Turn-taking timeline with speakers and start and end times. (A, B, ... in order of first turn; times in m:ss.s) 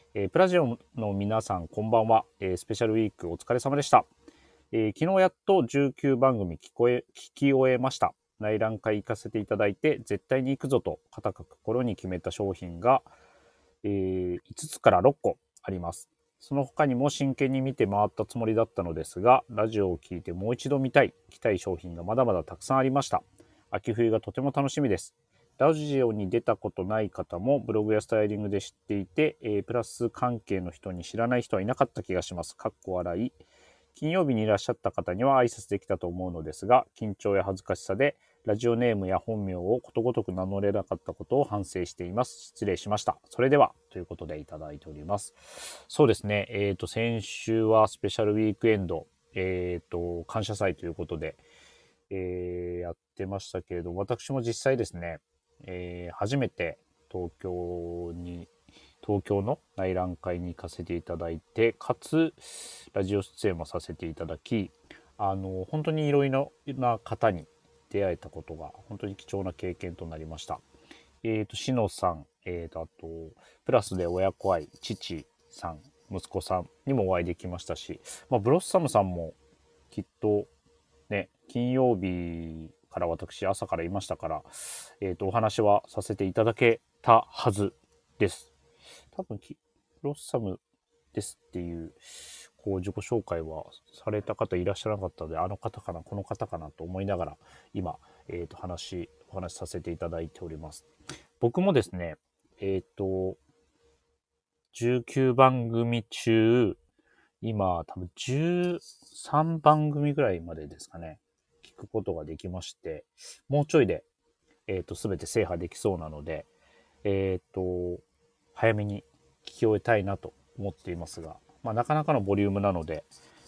0:00.1-0:04.1 A
0:04.7-0:13.1 A
0:13.8-0:33.4 A
0:33.9-0:51.4 A
0:52.1-0:58.5 A
0:59.0-1:10.6 A
1:11.2-1:19.4 A
1:19.9-1:20.5 A
1:21.1-1:28.5 A
1:29.1-1:30.6 A
1:31.1-1:32.0 A
1:32.6-1:40.9 A
1:41.4-1:43.4 A
1:44.7-1:46.8 A
1:47.4-1:54.0 A
1:54.7-1:56.5 A
1:57.0-1:58.0 A
1:58.5-2:03.1 A